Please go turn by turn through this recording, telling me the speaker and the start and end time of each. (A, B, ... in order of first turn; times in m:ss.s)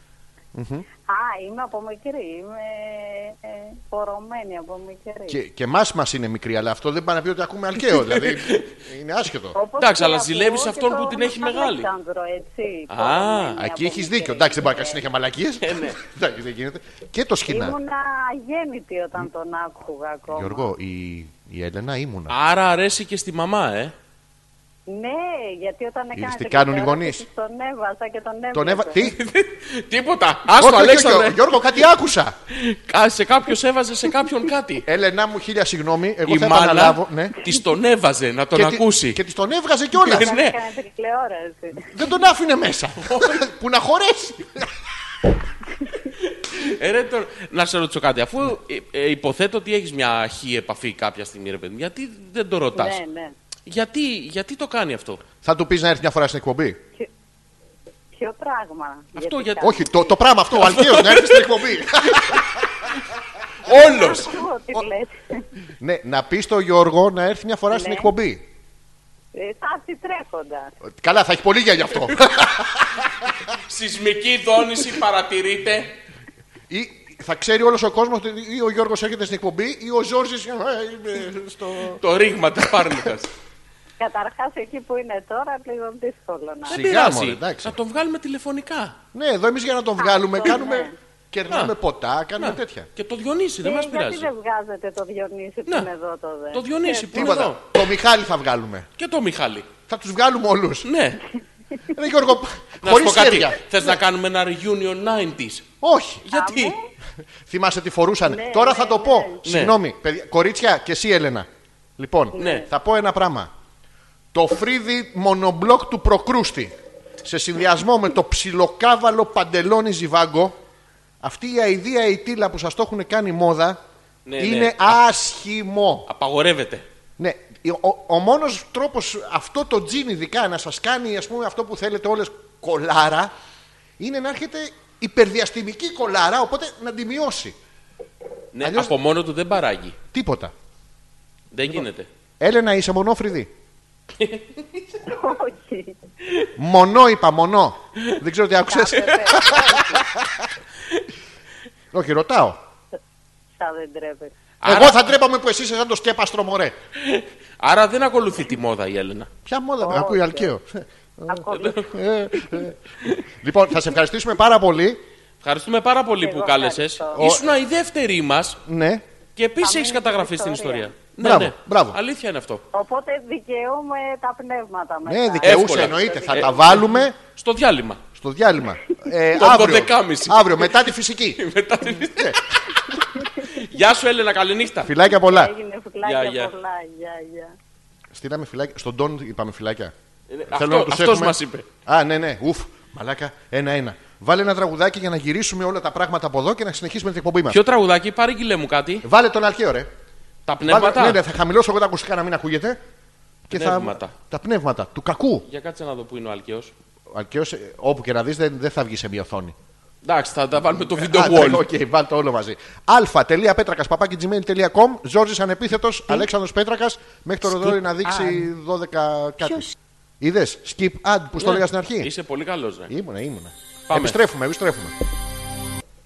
0:00.5-0:00.8 A
0:01.1-0:05.4 B
0:05.3-0:09.6 A
0:07.9-0:08.7 C
0:09.5-0:15.0 B
0:09.8-0:11.9 C
0:12.9-0:13.6 C
0:13.6-0:17.8 A
0:15.6-0:16.0 C
0:17.5-0:20.7 B
0:20.3-0:22.4 A
0:22.3-0:23.9 C
0:24.9-0:29.0 B
0:26.2-0:27.2 A
0:28.5-0:29.2 A
0:29.0-0:31.4 C
0:30.5-0:32.3 A
0:32.5-0:34.8 C
0:34.8-0:37.4 A
0:36.2-0:39.2 C
0:38.6-0:40.3 A
0:40.0-0:40.6 C
0:40.2-0:42.0 B
0:41.9-0:44.7 A
0:43.0-0:43.4 C
0:46.3-0:53.0 C
0:52.7-0:53.3 B
0:53.7-0:55.2 C
0:55.4-0:56.8 A
0:58.2-1:00.0 B
0:59.2-0:59.8 C
0:59.6-1:02.5 A
1:00.6-1:02.4 C
1:03.6-1:04.4 C
1:03.7-1:05.4 B
1:05.8-1:08.4 A
1:07.7-1:08.1 B
1:09.3-1:10.7 B
1:10.9-1:13.3 A
1:13.5-1:16.0 C
1:16.7-1:22.0 A
1:22.0-1:23.3 C
1:24.0-1:26.8 B
1:26.7-1:29.0 C
1:26.7-1:27.8 A
1:29.1-1:32.9 A
1:30.0-1:31.0 B
1:31.5-1:31.7 C
1:32.4-1:34.3 C
1:33.6-1:37.4 B
1:36.5-1:37.6 C
1:37.1-1:38.9 A
1:39.0-1:39.7 C
1:39.9-1:40.9 A
1:40.8-1:41.2 C
1:41.9-1:43.6 A
1:42.8-1:45.6 C
1:45.8-1:46.3 A
1:46.3-1:46.8 C
1:46.3-1:46.8 B
1:47.5-1:53.5 A
1:48.2-1:49.4 B
1:49.4-1:49.8 C
1:52.3-1:52.7 B
1:52.4-1:52.7 C
1:54.3-2:00.6 A
2:01.2-2:03.8 A
2:04.3-2:05.0 C
2:04.4-2:06.1 A
2:06.1-2:06.9 C
2:07.2-2:13.3 A
2:14.0-2:17.6 A
2:18.5-2:20.0 C
2:18.6-2:19.0 A
2:20.1-2:20.5 A
2:21.5-2:22.1 C
2:22.4-2:23.5 A
2:24.2-2:24.8 C
2:25.0-2:26.0 B
2:26.6-2:30.5 A
2:28.7-2:30.1 B
2:31.9-2:32.6 A
2:33.6-2:34.3 B
2:34.6-2:35.0 C
2:34.6-2:36.8 A
2:37.0-2:39.3 C
2:39.5-2:42.8 A
2:39.8-2:40.5 B
2:41.3-2:41.9 B
2:41.5-2:41.9 C
2:43.4-2:45.0 A
2:45.4-2:48.6 C
2:46.2-2:47.2 B
2:47.2-2:47.5 A
2:48.6-2:49.0 A
2:49.4-2:52.6 C
2:49.6-2:51.1 B
2:51.2-2:52.0 A
2:52.7-2:56.8 B
2:55.0-2:57.2 A
2:55.4-2:58.0 C
2:58.2-3:01.4 A
2:59.3-3:02.6 C
3:02.0-3:02.4 A
3:03.4-3:04.9 C
3:04.8-3:05.5 A
3:04.9-3:07.6 B
3:06.0-3:06.5 C
3:08.1-3:09.9 A
3:10.3-3:11.7 C
3:10.5-3:17.6 A
3:17.5-3:19.0 C
3:19.0-3:19.9 A
3:20.5-3:21.2 C
3:20.7-3:22.8 A
3:23.5-3:25.5 A
3:23.5-3:24.1 C
3:25.5-3:26.7 C
3:27.1-3:29.6 A
3:30.0-3:31.6 C
3:30.9-3:39.7 A
3:37.5-3:38.4 C
3:40.2-3:42.1 A
3:41.4-3:42.9 C
3:42.9-3:45.0 A
3:43.9-3:44.2 C